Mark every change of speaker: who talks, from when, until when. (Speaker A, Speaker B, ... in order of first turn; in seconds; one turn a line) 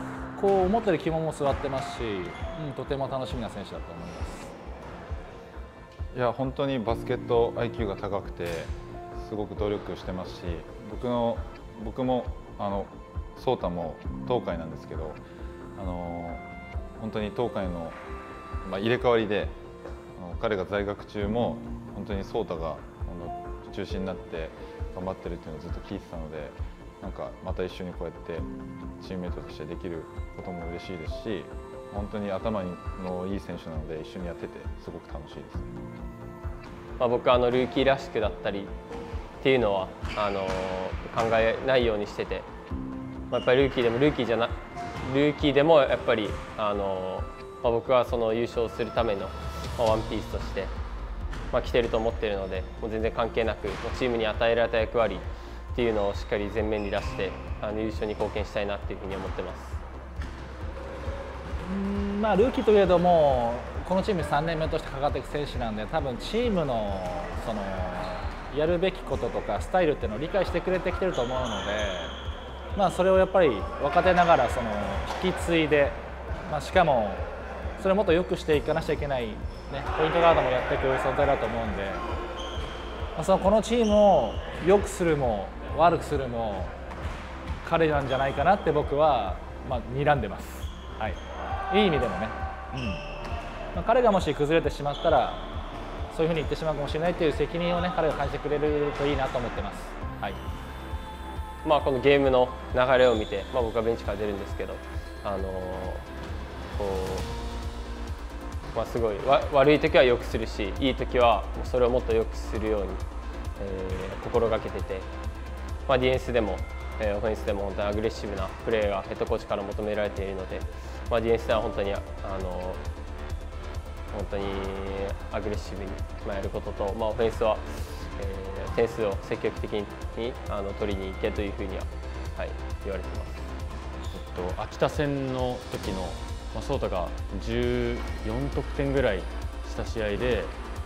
Speaker A: 0.4-4.5
Speaker B: 6.1-15.2
Speaker B: 15.8-18.0
Speaker B: 18.6-19.6
Speaker B: 20.1-35.7
Speaker C: 37.0-38.7
Speaker C: 39.4-42.5
Speaker C: 43.3-50.7
Speaker C: 51.5-59.8
Speaker A: 61.6-72.1
Speaker A: 72.8-77.3
Speaker A: 77.8-82.0
Speaker A: 83.2-86.7
Speaker A: 87.6-91.2
Speaker A: 91.7-93.0
Speaker A: 93.7-95.4
Speaker A: 96.1-100.4
Speaker C: 101.6-106.0
Speaker C: 106.7-107.3
Speaker C: 108.7-113.0
Speaker C: 113.6-115.1
Speaker C: 115.9-122.8
Speaker C: 124.1-133.5
Speaker D: 134.1-140.5